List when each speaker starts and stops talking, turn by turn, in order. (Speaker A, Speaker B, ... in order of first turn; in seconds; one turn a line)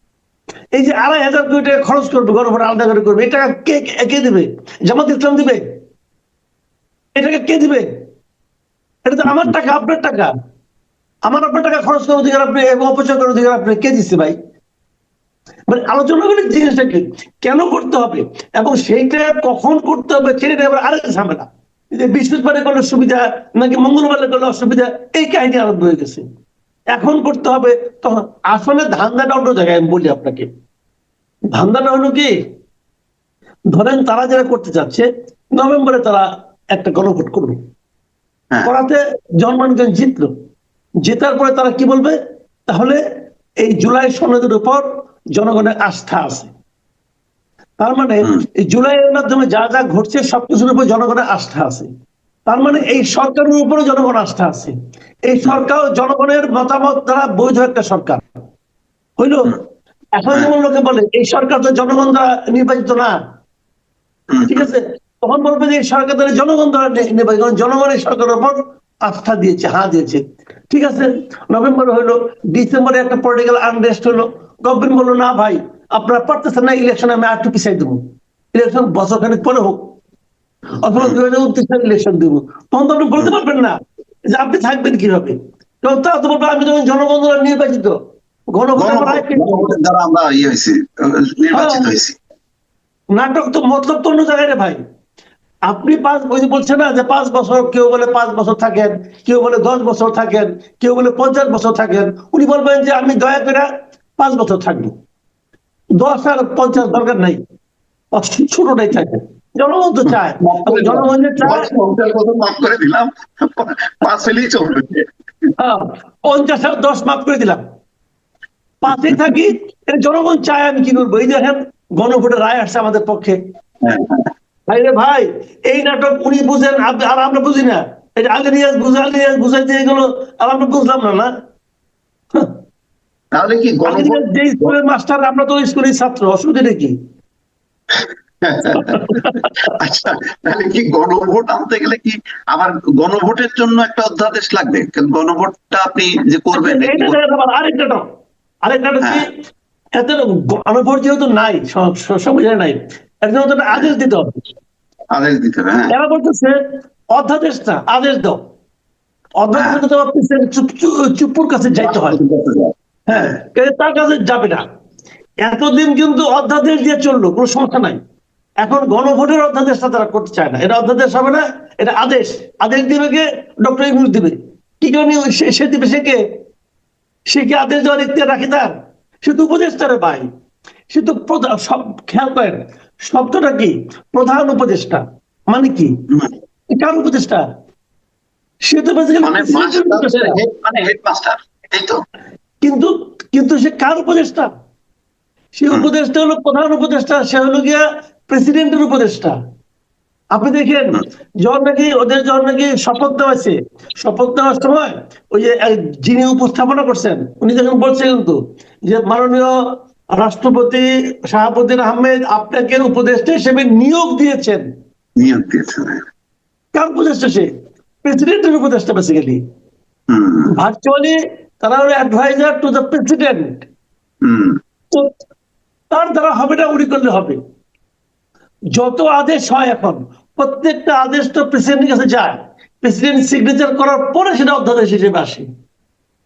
Speaker A: 0.7-5.6
Speaker A: 7.2-7.9
Speaker A: 9.1-10.3
Speaker B: 9.2-9.5
Speaker A: 11.3-14.3
Speaker A: 15.7-26.2
Speaker A: 26.9-30.5
Speaker A: 31.5-32.3
Speaker A: 33.7-35.0
Speaker A: 35.6-37.6
Speaker A: 38.6-40.3
Speaker A: 41.0-42.1
Speaker A: 42.7-43.0
Speaker A: 43.6-44.8
Speaker A: 45.4-46.5
Speaker A: 47.8-51.9
Speaker A: 52.5-54.7
Speaker A: 55.3-58.2
Speaker A: 59.2-59.5
Speaker A: 60.2-63.1
Speaker B: 64.3-64.7
Speaker A: 64.5-78.0
Speaker A: 78.5-79.8
Speaker A: 80.8-83.8
Speaker A: 84.3-87.9
Speaker A: 88.5-89.7
Speaker B: 88.8-92.2
Speaker A: 91.5-91.9
Speaker A: 93.1-94.8
Speaker A: 95.7-104.9
Speaker A: 106.0-107.4
Speaker A: 108.1-111.7
Speaker B: 110.1-115.0
Speaker A: 115.6-117.6
Speaker A: 118.8-123.4
Speaker B: 119.1-119.4
Speaker B: 123.8-124.3
Speaker A: 124.7-131.3
Speaker B: 133.3-134.8
Speaker A: 133.8-136.9
Speaker B: 137.9-147.2
Speaker A: 138.7-139.5
Speaker A: 146.5-148.0
Speaker A: 148.6-149.3
Speaker A: 150.0-154.4
Speaker B: 155.1-155.9
Speaker A: 155.9-156.6
Speaker A: 157.1-158.4
Speaker A: 159.4-162.2
Speaker B: 159.6-159.8
Speaker B: 161.8-163.4
Speaker A: 163.1-164.6
Speaker A: 165.4-168.0
Speaker A: 168.6-176.2
Speaker A: 177.3-178.7
Speaker A: 179.2-180.2
Speaker A: 180.9-185.9
Speaker A: 186.7-187.4
Speaker A: 188.7-190.4
Speaker B: 189.2-192.0
Speaker A: 192.6-194.5
Speaker A: 195.6-199.4
Speaker A: 200.3-214.6
Speaker B: 215.2-216.0
Speaker A: 216.8-217.5
Speaker A: 218.0-219.4
Speaker B: 220.1-220.5
Speaker A: 220.5-223.7
Speaker B: 224.2-224.6
Speaker A: 225.9-227.4
Speaker A: 228.7-235.4